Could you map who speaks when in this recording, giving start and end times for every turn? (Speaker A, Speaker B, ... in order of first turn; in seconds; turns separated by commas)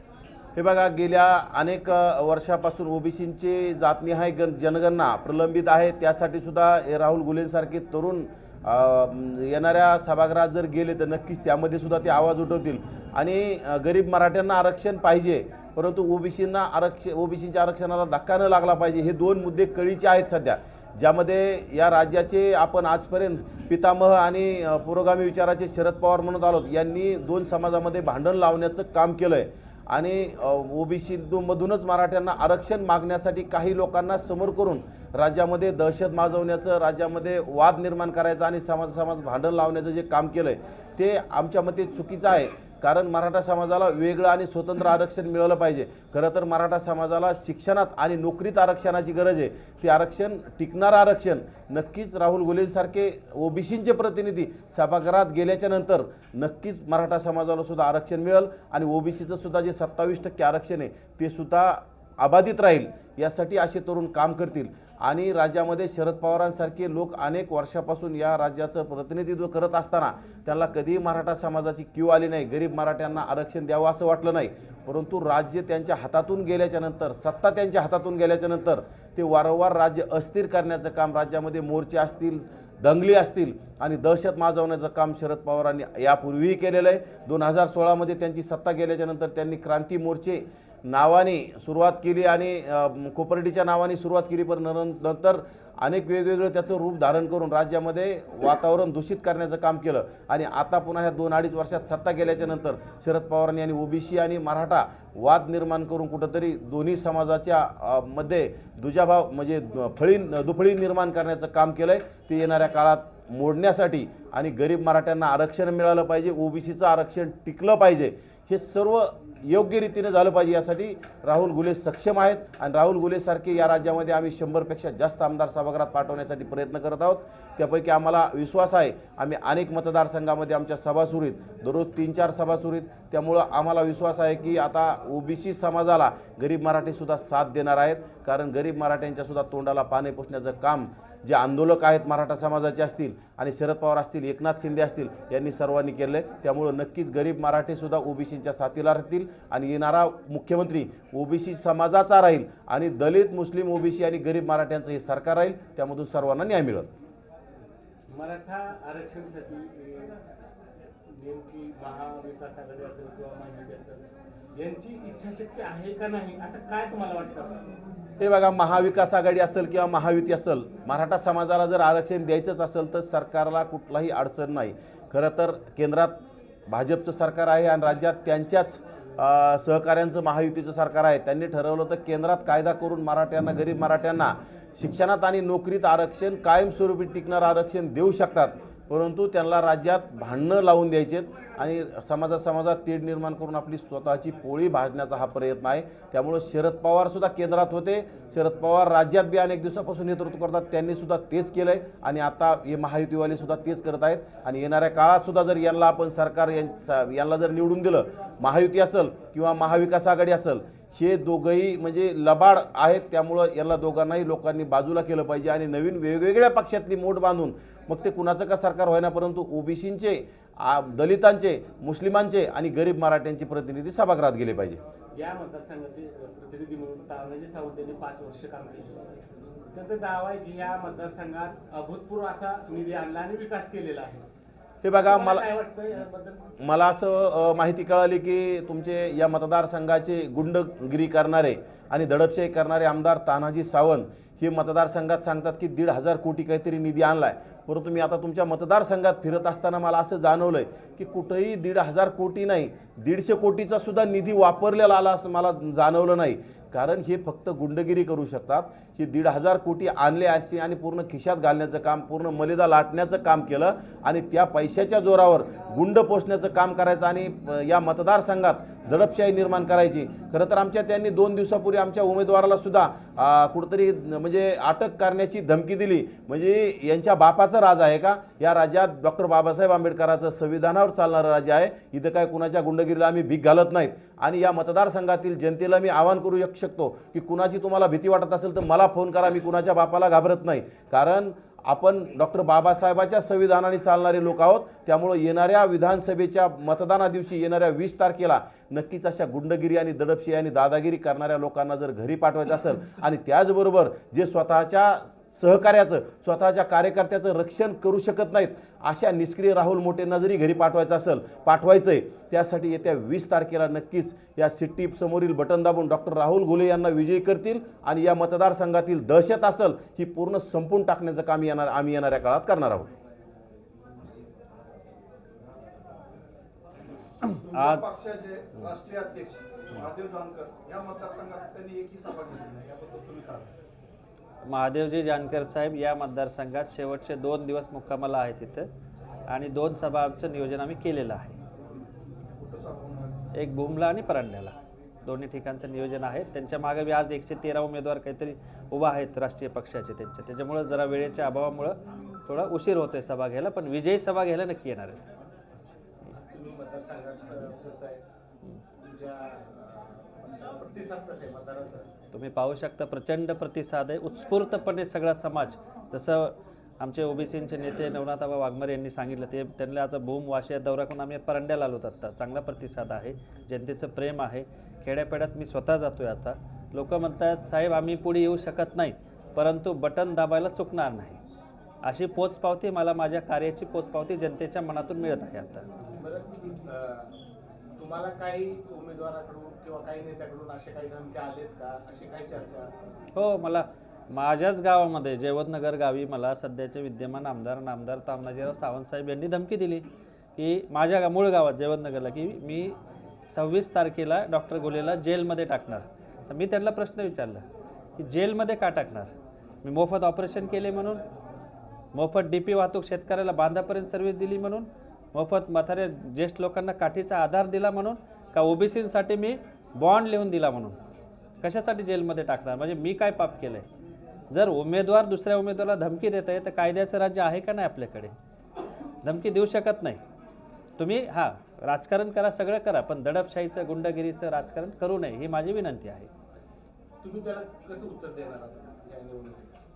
Speaker A: 0.6-156.9, Speaker B: 158.1-160.2, Speaker B: 161.1-164.0, Speaker B: 164.5-167.6, Speaker A: 168.2-224.8, Speaker B: 225.2-229.1, Speaker B: 229.7-234.3, Speaker A: 234.8-235.5, Speaker B: 235.1-236.4, Speaker A: 236.6-322.9, Speaker C: 327.2-333.5, Speaker D: 327.4-328.0, Speaker D: 334.4-338.7, Speaker D: 339.3-341.4, Speaker C: 342.4-343.2, Speaker D: 343.4-355.0, Speaker B: 356.1-358.0, Speaker B: 358.8-361.9, Speaker D: 362.1-381.2, Speaker D: 381.8-385.6, Speaker B: 385.9-387.1, Speaker B: 387.8-392.7, Speaker D: 393.1-402.8, Speaker D: 403.3-407.4, Speaker D: 408.0-409.1, Speaker D: 409.6-411.0, Speaker D: 411.9-420.8, Speaker D: 421.4-423.7, Speaker D: 424.3-428.2, Speaker D: 429.0-430.0, Speaker D: 430.8-436.1, Speaker B: 437.0-439.5